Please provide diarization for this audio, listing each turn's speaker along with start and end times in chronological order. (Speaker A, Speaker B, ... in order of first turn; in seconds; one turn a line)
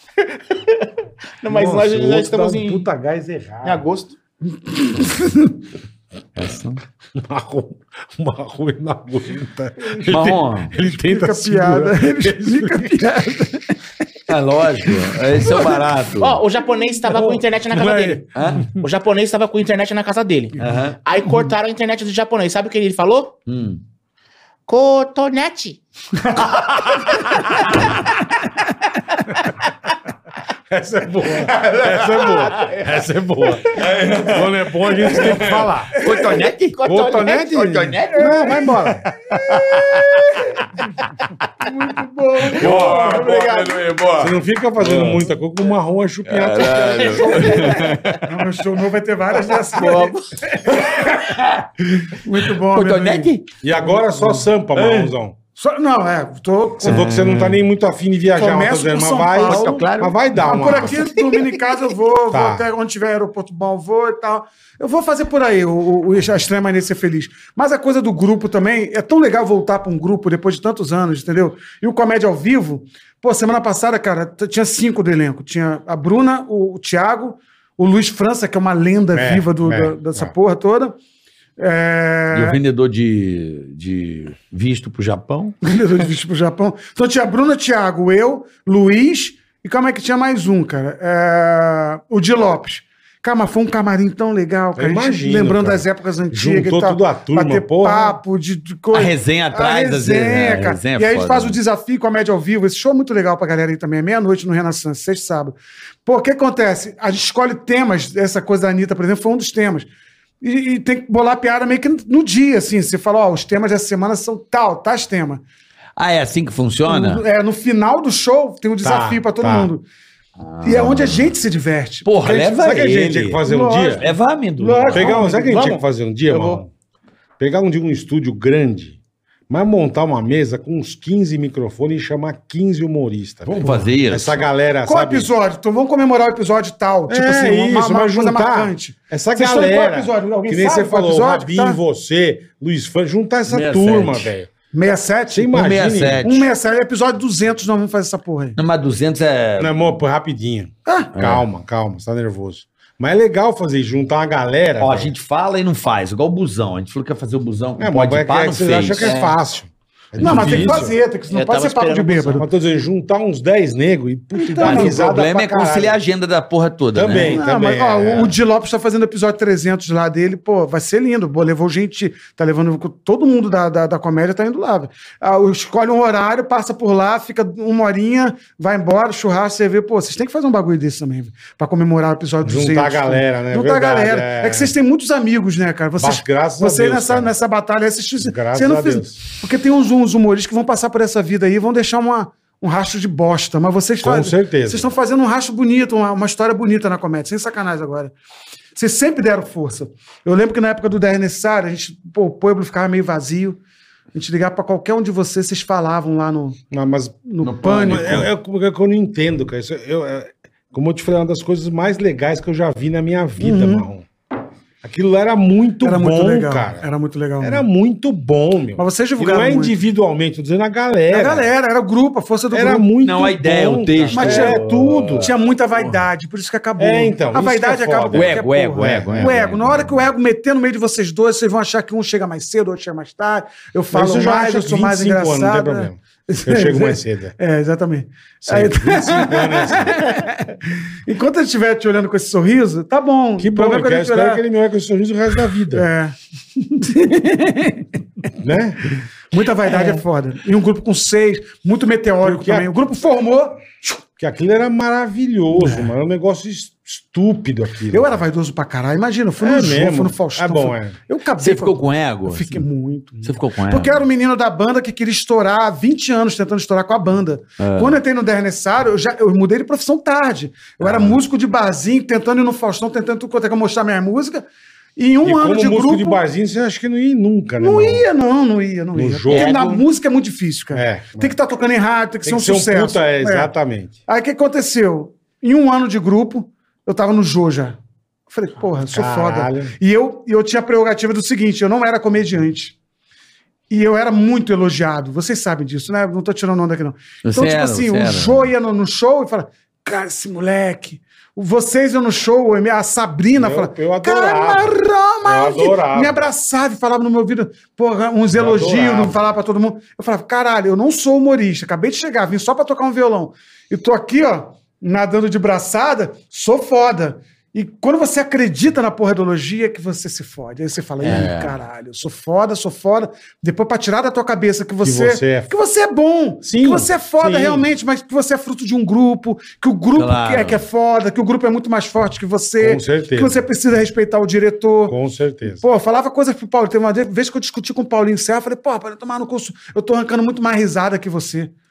Speaker A: 0.3-0.9
Speaker A: 1.4-2.9
Speaker B: 1.5-3.8
Speaker A: 3.6-4.1
Speaker C: 4.6-5.6
Speaker D: 6.3-6.8
Speaker B: 7.1-13.1
Speaker D: 10.1-10.7
Speaker C: 10.8-13.8
Speaker D: 14.3-16.4
Speaker A: 16.2-18.2
Speaker B: 17.1-18.8
Speaker D: 18.3-18.7
Speaker A: 18.7-23.4
Speaker D: 20.6-21.0
Speaker D: 23.5-23.8
Speaker A: 24.7-25.8
Speaker D: 26.7-27.1
Speaker B: 30.7-35.9
Speaker D: 31.7-32.8
Speaker A: 32.1-32.8
Speaker D: 33.6-34.5
Speaker D: 35.1-38.4
Speaker C: 35.1-35.7
Speaker A: 36.0-38.6
Speaker B: 36.8-39.1
Speaker C: 39.3-40.0
Speaker D: 39.3-40.4
Speaker C: 41.6-43.6
Speaker D: 42.5-45.2
Speaker B: 42.6-43.2
Speaker A: 42.7-43.8
Speaker B: 44.2-47.9
Speaker D: 46.2-48.3
Speaker A: 46.9-48.0
Speaker C: 48.2-50.1
Speaker A: 49.7-50.2
Speaker D: 50.7-51.7
Speaker C: 50.7-51.0
Speaker C: 52.0-53.3
Speaker D: 52.7-53.5
Speaker B: 53.6-55.4
Speaker C: 53.8-54.9
Speaker C: 55.6-57.1
Speaker B: 56.8-61.0
Speaker D: 56.8-57.6
Speaker C: 58.3-59.9
Speaker D: 59.4-60.9
Speaker C: 60.4-81.0
Speaker B: 62.3-62.7
Speaker B: 79.1-80.3
Speaker C: 81.6-82.6
Speaker D: 82.3-85.5
Speaker C: 85.6-109.9
Speaker B: 94.8-98.2
Speaker D: 98.9-101.6
Speaker C: 110.4-115.4
Speaker D: 116.0-117.2
Speaker C: 116.9-119.8
Speaker B: 118.8-119.7
Speaker D: 120.4-121.3
Speaker C: 120.6-122.1
Speaker D: 122.0-123.4
Speaker B: 122.2-124.0
Speaker C: 123.5-124.1
Speaker D: 124.0-125.2
Speaker C: 124.6-125.2
Speaker A: 124.7-126.6
Speaker B: 124.9-126.7
Speaker B: 127.4-135.3
Speaker D: 133.5-134.4
Speaker C: 134.8-141.8
Speaker B: 137.1-144.5
Speaker D: 143.5-144.3
Speaker C: 144.7-145.6
Speaker B: 145.3-146.3
Speaker D: 145.5-146.5
Speaker C: 146.2-148.6
Speaker D: 148.6-149.7
Speaker B: 149.6-155.1
Speaker C: 150.8-151.1
Speaker D: 151.1-151.4
Speaker D: 154.8-159.2
Speaker B: 157.8-161.0
Speaker A: 159.0-159.3
Speaker D: 160.2-160.8
Speaker C: 160.2-162.4
Speaker A: 161.3-162.4
Speaker B: 162.4-166.0
Speaker C: 164.3-165.0
Speaker D: 164.6-167.4
Speaker B: 166.9-168.4
Speaker C: 167.1-198.1
Speaker B: 182.4-184.7
Speaker B: 186.0-187.3
Speaker B: 188.2-189.2
Speaker B: 194.0-194.9
Speaker C: 198.7-203.6
Speaker C: 204.1-206.6
Speaker B: 206.7-214.1
Speaker C: 207.3-208.2
Speaker D: 207.4-208.3
Speaker C: 213.4-213.9
Speaker B: 214.8-216.8
Speaker C: 215.8-217.6
Speaker B: 217.4-221.5
Speaker C: 218.8-219.7
Speaker C: 221.1-222.9
Speaker B: 222.5-225.3
Speaker D: 223.0-226.0
Speaker C: 224.1-244.4
Speaker B: 226.8-229.4
Speaker D: 228.1-230.0
Speaker B: 233.9-237.3
Speaker B: 238.4-240.1
Speaker B: 243.4-245.9
Speaker C: 245.7-247.7
Speaker B: 248.4-248.8
Speaker C: 249.3-254.0
Speaker B: 252.2-252.7
Speaker B: 254.2-258.2
Speaker C: 255.6-255.9
Speaker C: 257.9-274.4
Speaker B: 259.4-261.0
Speaker D: 261.4-262.6
Speaker D: 263.2-264.0
Speaker D: 267.6-268.0
Speaker B: 270.8-271.2
Speaker C: 274.9-276.2
Speaker B: 275.2-278.1
Speaker C: 277.6-283.5
Speaker B: 278.9-279.6
Speaker A: 279.3-279.8
Speaker B: 280.7-281.3
Speaker B: 282.2-284.0
Speaker C: 284.1-287.8
Speaker C: 288.3-292.8
Speaker B: 288.9-289.7
Speaker C: 293.7-335.0
Speaker D: 297.2-298.5
Speaker B: 303.3-306.2
Speaker B: 308.3-309.2
Speaker D: 321.0-321.5
Speaker B: 324.8-325.5
Speaker B: 326.4-327.7
Speaker D: 329.9-330.6
Speaker B: 332.6-333.4
Speaker B: 334.9-335.6
Speaker C: 335.5-341.5